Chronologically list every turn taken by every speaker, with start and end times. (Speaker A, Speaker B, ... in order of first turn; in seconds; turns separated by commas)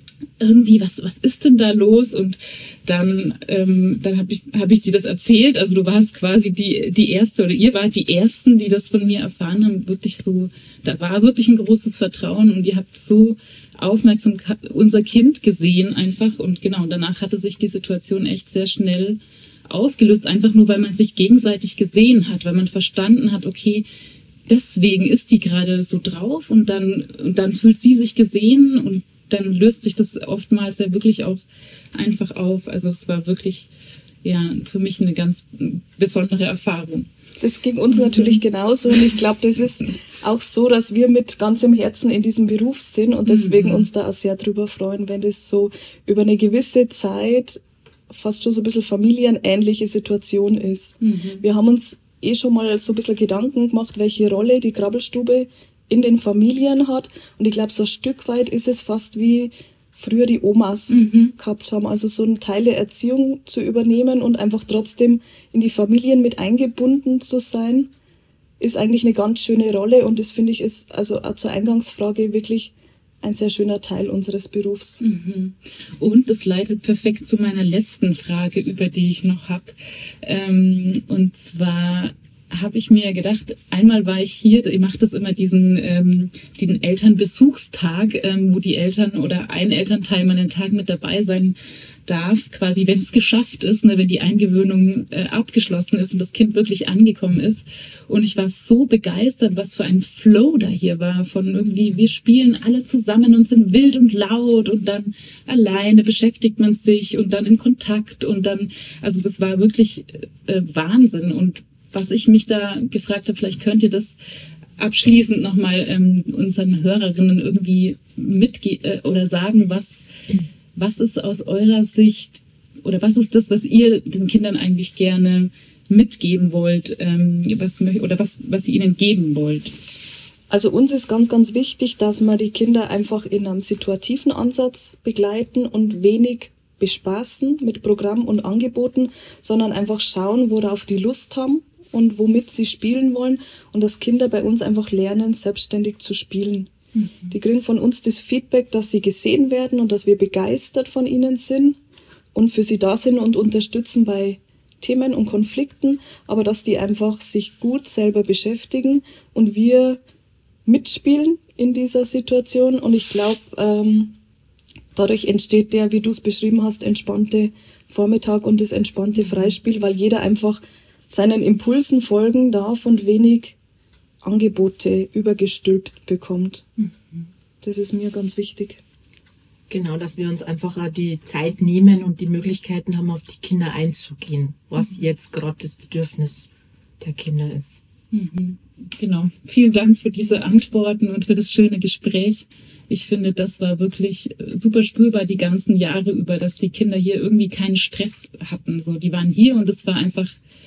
Speaker A: 0.4-23.8, Speaker A: 24.5-31.4, Speaker A: 31.9-33.7, Speaker A: 34.2-37.1, Speaker B: 37.4-67.9, Speaker A: 37.9-38.4, Speaker A: 43.2-43.9, Speaker A: 51.0-51.4, Speaker A: 60.9-61.3, Speaker B: 68.6-75.0, Speaker A: 75.0-114.2, Speaker A: 114.8-120.0, Speaker A: 120.7-129.7, Speaker B: 130.5-146.7, Speaker A: 146.9-147.3, Speaker B: 147.3-151.8, Speaker B: 152.3-160.0, Speaker B: 160.7-164.2, Speaker B: 164.9-173.6, Speaker B: 174.2-176.7, Speaker A: 176.8-177.2, Speaker B: 177.6-178.8, Speaker C: 179.7-187.8, Speaker A: 188.1-200.4